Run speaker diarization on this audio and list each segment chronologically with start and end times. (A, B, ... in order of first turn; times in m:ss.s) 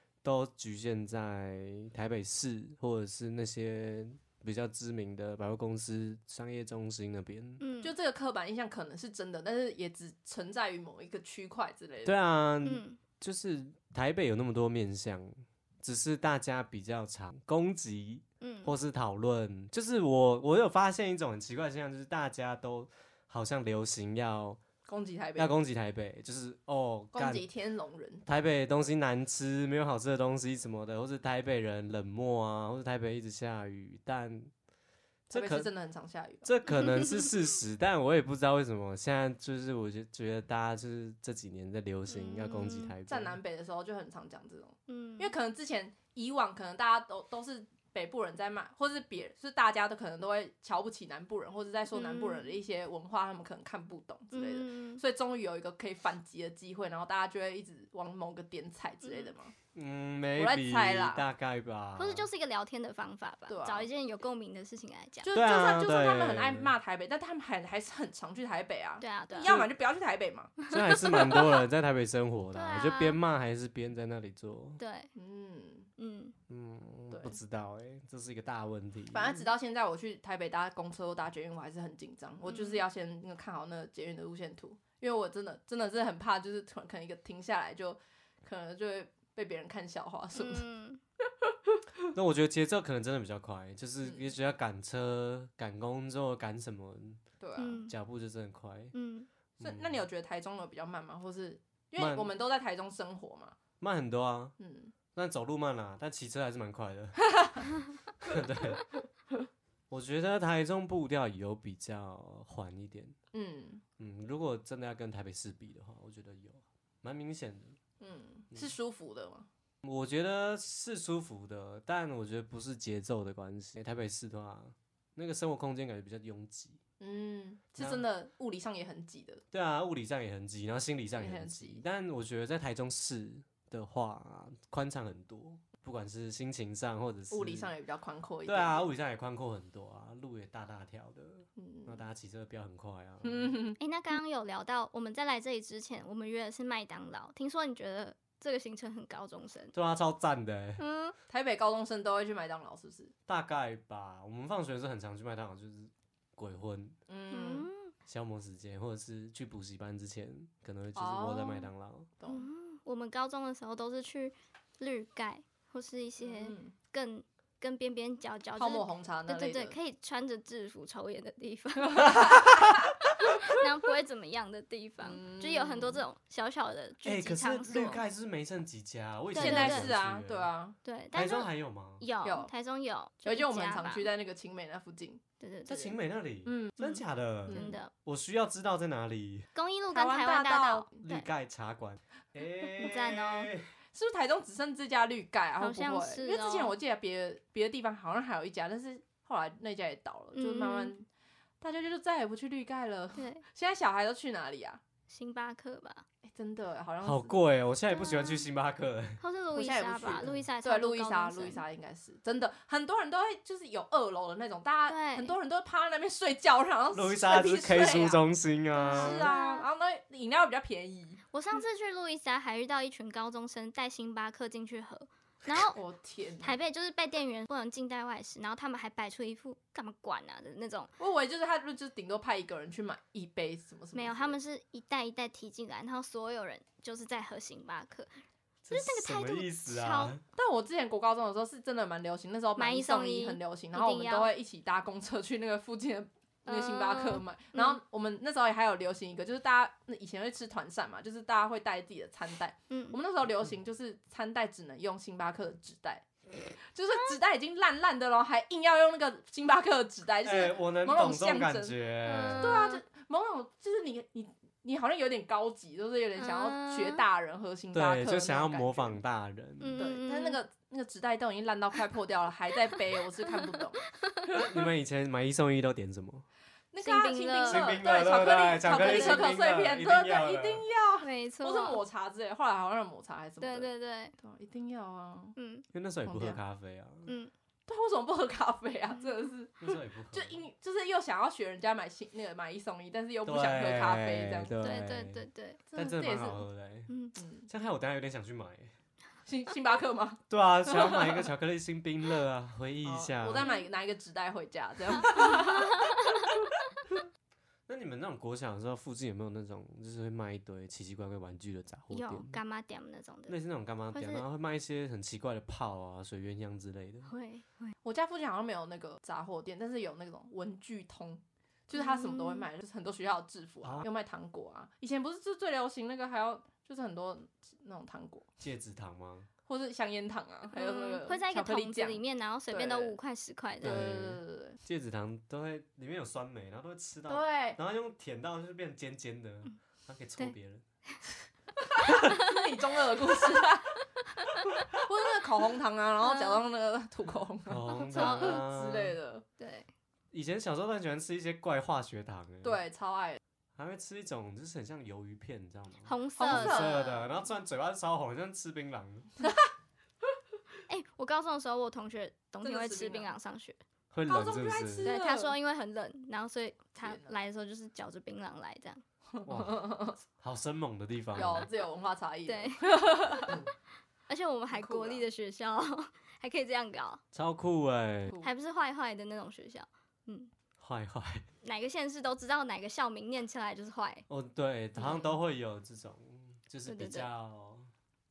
0:00.2-0:07.6 A
0:07.6-0:07.9 B
0:07.8-0:12.1 C
0:12.0-0:24.6 A
0:12.6-0:13.0 B
0:18.4-0:18.7 B
0:24.9-0:25.5 C
0:25.4-0:27.4 A
0:27.1-0:28.2 C
0:28.2-0:34.5 A
0:35.3-0:35.7 A
0:35.3-0:36.6 C
0:36.4-0:43.4 A
0:36.7-0:37.1 B
0:42.1-0:42.9 B
0:43.0-0:59.5 C
0:44.9-0:45.3 B
0:51.9-0:52.6 B
0:54.3-0:55.0 B
0:59.0-0:59.3 B
0:59.7-1:02.2 A
1:00.4-1:01.2 C
1:02.0-1:05.3 B
1:03.5-1:03.9 C
1:05.2-1:10.6 C
1:05.3-1:06.7 A
1:09.0-1:09.6 B
1:10.7-1:14.8 A
1:10.9-1:11.4 B
1:12.5-1:13.2 B
1:14.8-1:15.1 B
1:15.2-1:15.9 C
1:16.0-1:16.3 B
1:16.5-1:19.5 A
1:17.1-1:17.4 C
1:19.1-1:30.7 C
1:22.5-1:22.8 B
1:30.3-1:31.0 B
1:32.1-1:37.2 A
1:34.0-1:34.3 C
1:37.4-1:37.8 C
1:37.6-1:37.9 B
1:37.9-1:38.9 A
1:38.9-1:39.3 B
1:39.6-1:43.6 C
1:39.6-1:40.0 A
1:42.0-1:42.3 A
1:43.8-1:44.5 A
1:44.6-1:44.9 C
1:45.1-1:47.2 A
1:47.3-1:47.6 C
1:48.2-1:48.8 A
1:49.9-1:53.2 A
1:53.3-1:53.8 C
1:54.0-1:57.8 A
1:58.0-1:59.5 C
1:59.8-2:06.8 A
2:07.0-2:09.4 C
2:07.8-2:08.0 A
2:09.5-2:17.7 A
2:11.2-2:11.8 C
2:17.3-2:18.9 C
2:18.5-2:23.6 A
2:21.6-2:22.0 C
2:23.2-2:23.8 C
2:23.8-2:29.7 B
2:29.7-2:30.8 A
2:30.8-2:31.2 B
2:31.3-2:33.1 C
2:33.3-2:37.0 A
2:37.1-2:37.7 C
2:37.3-2:37.9 B
2:38.1-2:42.1 A
2:40.9-2:42.5 C
2:42.3-2:58.0 B
2:46.2-2:46.7 C
2:48.6-2:49.8 C
2:52.0-2:52.7 C
2:55.0-2:56.0 C
2:57.0-3:00.5 A
2:59.3-3:00.8 C
2:59.4-2:59.9 B
3:00.8-3:04.1 B
3:01.1-3:02.0 A
3:02.2-3:02.5 C
3:03.2-3:05.2 C
3:05.4-3:05.9 B
3:05.7-3:09.5 A
3:06.4-3:06.9 C
3:06.8-3:07.9 B
3:07.5-3:07.8 C
3:09.5-3:11.3 B
3:09.9-3:11.0 C
3:11.0-3:13.7 A
3:12.8-3:13.5 B
3:13.9-3:21.0 C
3:15.6-3:16.8 B
3:20.4-3:21.0 B
3:21.6-3:24.8 C
3:23.2-3:23.4 B
3:25.1-3:26.0 B
3:26.2-3:27.3 C
3:27.0-3:29.2 A
3:27.9-3:28.4 B
3:29.2-3:31.6 B
3:29.5-3:38.2 C
3:34.9-3:35.3 B
3:36.9-3:39.3 A
3:38.7-3:39.6 B
3:38.8-3:41.2 C
3:41.3-3:45.8 B
3:45.7-3:46.5 C
3:46.4-3:50.9 B
3:51.0-3:54.4 C
3:53.9-3:58.1 B
3:58.6-4:00.2 A
3:58.7-4:00.1 B
4:00.4-4:16.0 C
4:02.6-4:04.3 B
4:06.4-4:07.8 B
4:12.7-4:13.0 B
4:16.7-4:21.7 C
4:20.2-4:22.6 A
4:22.0-4:22.8 B
4:22.4-4:29.0 C
4:26.2-4:27.0 B
4:27.7-4:29.8 A
4:29.6-4:30.4 B
4:29.8-4:34.4 C
4:33.3-4:34.3 B
4:34.3-4:36.2 A
4:36.7-4:45.3 C
4:36.8-4:39.3 B
4:37.5-4:40.6 A
4:41.0-4:41.8 B
4:43.4-4:44.1 B
4:45.4-4:45.6 B
4:45.7-4:47.1 A
4:46.0-4:46.4 C
4:47.1-4:47.3 B
4:47.7-4:54.5 C
4:49.6-4:50.4 A
4:53.2-4:55.2 A
4:54.6-4:55.6 B
4:55.7-4:56.4 C
4:55.7-4:56.9 A
4:56.9-4:57.1 B
4:57.2-4:57.5 C
4:57.5-4:58.7 A
4:59.2-5:01.2 C
5:00.3-5:03.5 A
5:02.8-5:06.0 C
5:05.0-5:06.3 B
5:07.7-5:12.4 A
5:11.9-5:13.4 B
5:13.3-5:17.1 A
5:13.9-5:14.2 B
5:17.1-5:17.7 B
5:17.8-5:28.3 C
5:21.7-5:22.5 B
5:28.4-5:29.3 A
5:29.5-5:33.0 C
5:30.5-5:33.9 B
5:33.6-5:34.6 C
5:33.6-5:40.6 A
5:37.1-5:37.6 C
5:41.7-5:43.7 C
5:41.8-5:42.3 B
5:44.7-5:49.2 C
5:46.0-5:46.4 B
5:47.5-5:49.0 A
5:47.7-5:48.4 B
5:49.4-5:49.7 B
5:50.1-5:52.6 A
5:52.4-5:53.2 C
5:53.6-5:59.1 A
5:55.8-5:57.0 B
5:56.2-5:57.0 C
6:00.7-6:03.6 B
6:02.4-6:03.1 C
6:03.9-6:04.9 A
6:04.1-6:05.3 C
6:04.8-6:08.8 B
6:06.8-6:07.1 C
6:09.1-6:10.0 C
6:09.2-6:11.5 A
6:11.1-6:13.4 C
6:12.2-6:13.4 B
6:14.1-6:17.0 B
6:14.5-6:15.0 C
6:17.1-6:18.2 A
6:18.2-6:20.3 B
6:20.6-6:21.2 A
6:21.4-6:24.0 B
6:24.1-6:27.7 A
6:24.8-6:25.2 B
6:26.6-6:27.1 B